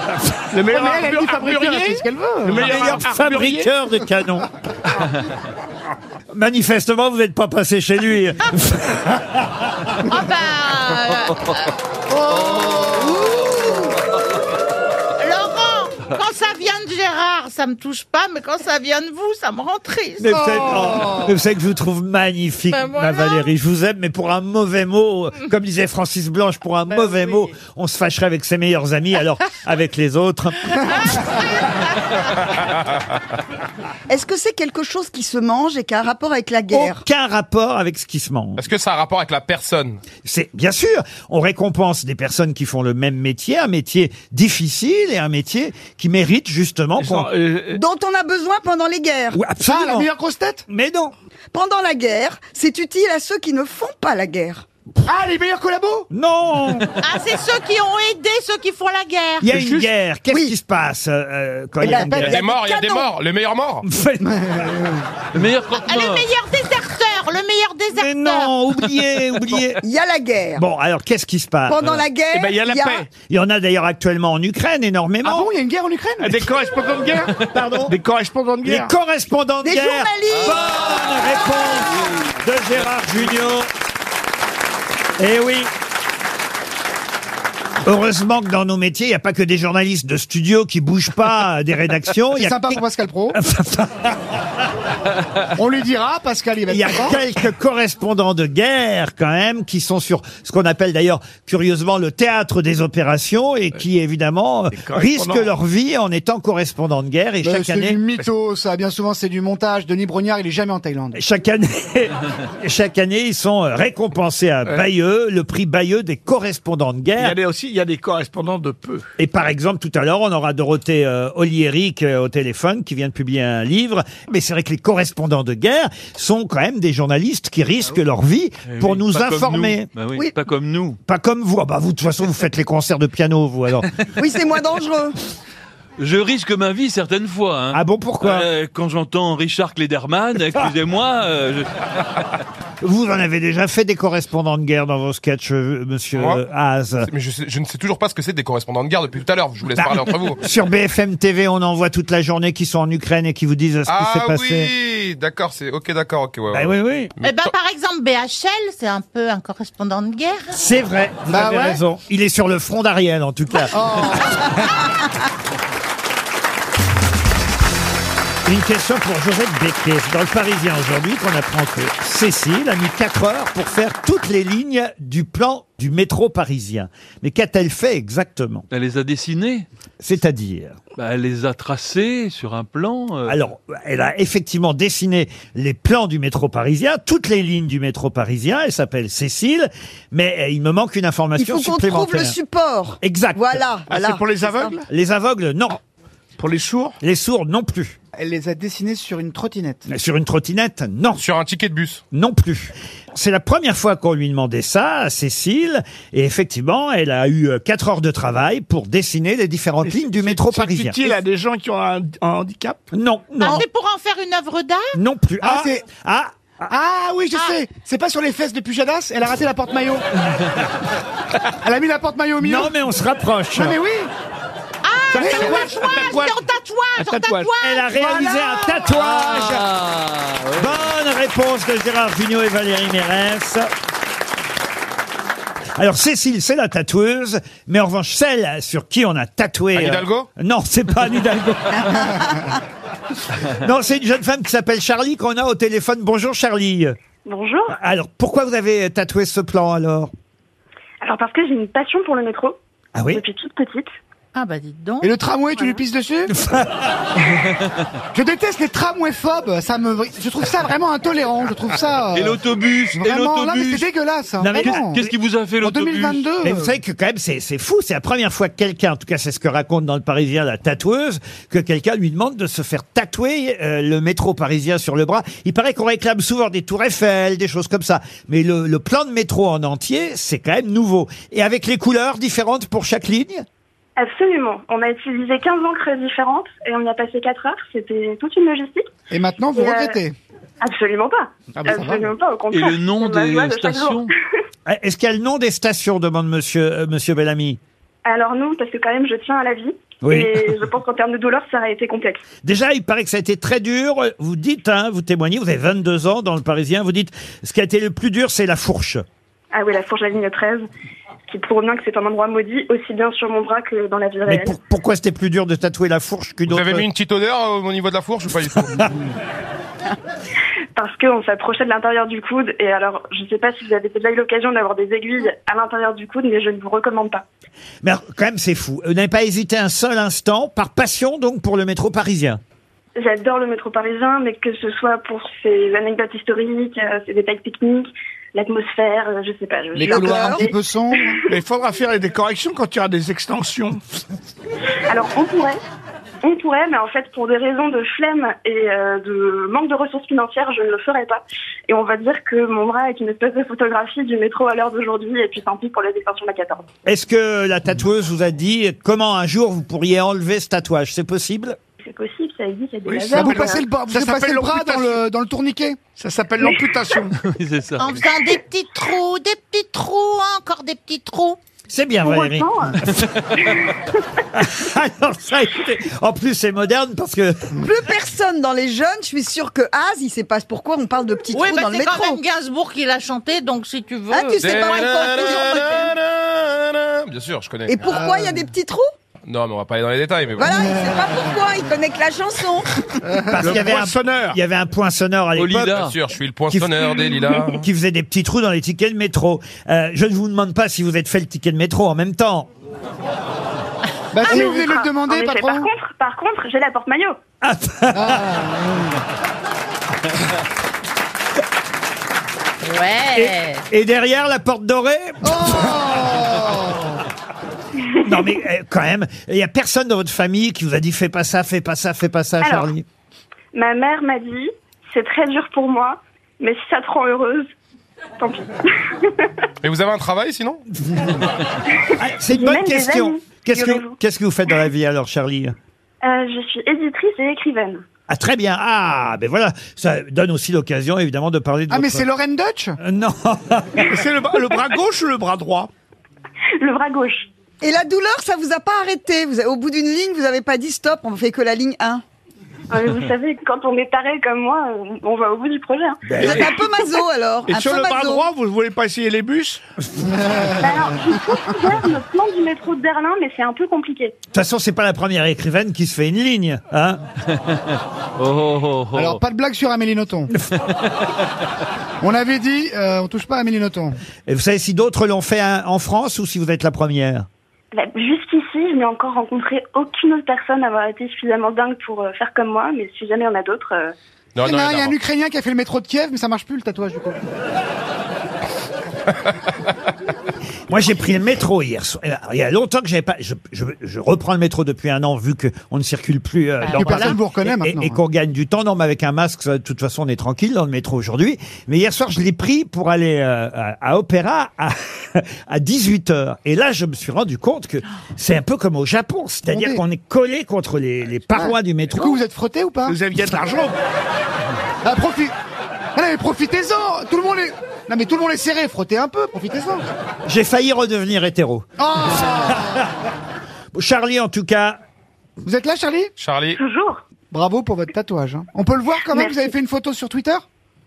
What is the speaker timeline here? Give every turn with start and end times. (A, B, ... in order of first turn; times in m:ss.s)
0:00.5-0:03.7 A
0:00.6-0:03.0 B
0:02.5-0:04.5 C
0:06.3-0:09.5 C
0:10.1-0:11.7 D
0:12.1-0:13.7 B
0:13.2-0:13.6 D
0:15.2-0:20.5 D
0:20.2-0:31.4 C
0:20.3-0:21.4 B
0:22.7-0:23.5 D
0:26.9-0:27.5 D
0:34.1-0:37.0 E
0:36.7-0:38.6 C
0:38.6-0:40.0 F
0:40.2-0:47.3 C
0:47.0-0:47.8 A
0:47.7-0:49.4 E
0:49.4-0:50.1 C
0:49.6-0:50.6 B
0:50.7-0:51.1 C
0:51.5-0:54.6 E
0:55.0-0:56.1 B
0:56.1-0:56.9 C
0:57.0-0:59.5 D
0:59.4-1:02.4 C
0:59.5-0:59.8 A
1:01.8-1:03.1 E
1:01.9-1:02.2 B
1:02.1-1:03.8 F
1:03.8-1:04.6 C
1:04.2-1:05.0 B
1:05.3-1:06.3 G
1:05.8-1:08.5 D
1:07.9-1:09.8 C
1:09.8-1:10.6 E
1:10.6-1:12.0 C
1:11.7-1:13.1 E
1:12.3-1:13.1 A
1:13.2-1:15.5 C
1:15.2-1:16.5 B
1:16.2-1:18.9 A
1:17.5-1:18.0 C
1:18.6-1:23.7 C
1:19.6-1:21.6 E
1:25.2-1:25.7 C
1:27.8-1:32.8 C
1:32.3-1:33.4 B
1:33.3-1:34.4 C
1:35.6-1:37.2 B
1:36.7-1:48.0 C
1:44.7-1:45.5 A
1:47.4-1:51.2 B
1:51.1-1:57.4 C
1:57.2-1:59.1 A
1:59.2-2:09.9 C
2:08.7-2:11.0 G
2:11.1-2:13.9 C
2:14.2-2:15.2 E
2:16.0-2:21.7 G
2:17.7-2:18.5 C
2:22.8-2:27.1 C
2:26.2-2:26.4 F
2:27.1-2:30.4 F
2:29.8-2:34.7 C
2:33.9-2:37.5 F
2:36.5-2:37.1 C
2:37.2-2:40.5 D
2:40.5-2:43.8 C
2:41.3-2:41.8 B
2:43.7-2:44.6 B
2:48.4-2:58.6 C
2:58.7-2:59.6 G
3:00.0-3:00.8 C
3:01.0-3:03.4 G
3:03.2-3:12.4 C
3:11.4-3:14.7 E
3:13.0-3:13.6 C
3:13.9-3:14.9 A
3:14.9-3:15.8 C
3:16.4-3:17.0 A
3:17.0-3:18.0 C
3:18.1-3:19.9 B
3:19.9-3:21.2 C
3:21.2-3:22.0 F
3:22.1-3:31.2 C
3:29.9-3:32.8 A
3:32.9-3:33.6 C
3:33.4-3:35.0 D
3:34.9-3:36.7 C
3:35.4-3:35.9 B
3:36.7-3:40.0 B
3:41.6-3:42.7 B
3:42.4-3:43.8 C
3:43.5-3:44.1 B
3:44.8-3:48.1 D
3:45.1-3:46.4 A
3:45.2-3:45.8 B
3:47.0-3:47.5 A
3:47.6-3:49.7 C
3:48.0-3:48.9 B
3:49.1-3:50.8 G
3:50.6-3:53.7 C
3:55.8-4:02.4 C
3:59.7-4:00.3 F
4:03.5-4:07.0 C
4:07.2-4:07.8 H
4:07.7-4:10.1 C
4:11.0-4:12.6 H
4:13.0-4:13.2 C
4:13.1-4:13.9 H
4:14.4-4:15.1 D
4:15.0-4:16.3 B
4:16.3-4:16.9 C
4:18.1-4:25.0 B
4:22.1-4:23.9 G
4:24.4-4:25.1 C
4:24.5-4:26.3 G
4:25.6-4:26.7 B
4:26.4-4:43.4 C
4:44.0-4:48.9 H
4:49.1-4:50.2 B
4:49.6-4:50.0 H
4:50.6-4:54.1 H
4:51.6-4:52.1 A
4:51.7-4:52.0 B
4:52.5-4:54.1 G
4:54.6-4:57.6 C
4:58.1-5:02.2 H
5:00.0-5:00.6 C
5:02.4-5:09.0 C
5:09.5-5:10.6 H
5:11.3-5:14.6 H
5:14.2-5:16.9 C
5:16.5-5:18.9 F
5:20.8-5:27.2 H
5:27.8-5:32.4 C
5:33.0-5:41.2 H
5:39.7-5:41.2 B
5:39.8-5:40.5 E
5:41.3-5:43.8 A
5:44.9-5:45.6 H
5:46.2-5:56.6 H
5:56.9-6:01.6 C
6:01.8-6:03.6 H
6:02.8-6:05.0 A
6:03.1-6:05.8 B
6:06.0-6:07.2 A
6:07.2-6:08.1 G
6:07.8-6:11.4 D
6:11.7-6:13.0 C
6:12.0-6:12.8 H
6:12.9-6:13.1 G
6:13.4-6:13.7 H
6:14.4-6:17.6 C
6:17.6-6:22.2 E
6:21.3-6:25.6 D
6:24.1-6:25.9 E
6:24.4-6:27.9 F
6:27.7-6:28.9 E
6:27.9-6:28.5 B
6:29.3-6:30.6 F
6:30.4-6:32.9 E
6:30.5-6:31.4 B
6:33.0-6:33.6 B
6:33.3-6:35.9 C
6:33.4-6:34.4 A
6:35.4-6:36.0 G
6:35.8-6:37.6 F
6:36.5-6:42.5 C
6:44.1-6:45.7 B
6:44.2-6:47.2 H
6:47.4-6:48.3 C
6:47.9-6:49.0 B
6:52.6-6:53.6 D
6:53.2-6:56.0 C
6:55.2-6:57.0 B
6:58.0-7:02.8 C
7:02.4-7:02.7 H
7:03.5-7:07.5 H
7:08.2-7:09.3 H
7:09.6-7:10.6 F
7:11.8-7:14.0 H
7:12.0-7:15.5 C
7:16.0-7:17.8 H
7:18.1-7:22.1 C
7:21.7-7:22.8 B
7:22.8-7:24.0 C
7:23.8-7:25.7 A
7:26.6-7:27.3 H
7:27.6-7:32.0 E
7:32.7-7:36.2 H
7:36.1-7:36.5 C
7:36.2-7:36.5 A
7:36.2-7:38.3 E
7:37.5-7:39.6 A
7:40.0-7:41.1 B
7:40.6-7:44.2 H
7:44.3-7:47.0 C
7:47.3-7:49.2 G
7:48.9-7:50.3 B
7:52.0-7:54.0 B
7:54.3-7:57.3 C
7:57.7-8:03.9 H
8:04.3-8:05.0 F
8:04.4-8:07.2 B
8:10.7-8:32.2 C
8:16.6-8:17.2 D
8:16.7-8:18.0 B
8:29.5-8:29.8 B
8:31.3-8:33.0 B
8:32.9-8:33.8 A
8:34.8-8:35.3 B
8:36.0-8:39.8 B
8:40.2-8:42.8 C
8:41.8-8:42.8 B
8:43.7-8:44.8 C
8:45.4-8:46.1 B
8:46.2-8:46.6 F
8:46.6-8:47.0 H
8:47.3-8:50.4 B
8:49.1-8:49.5 H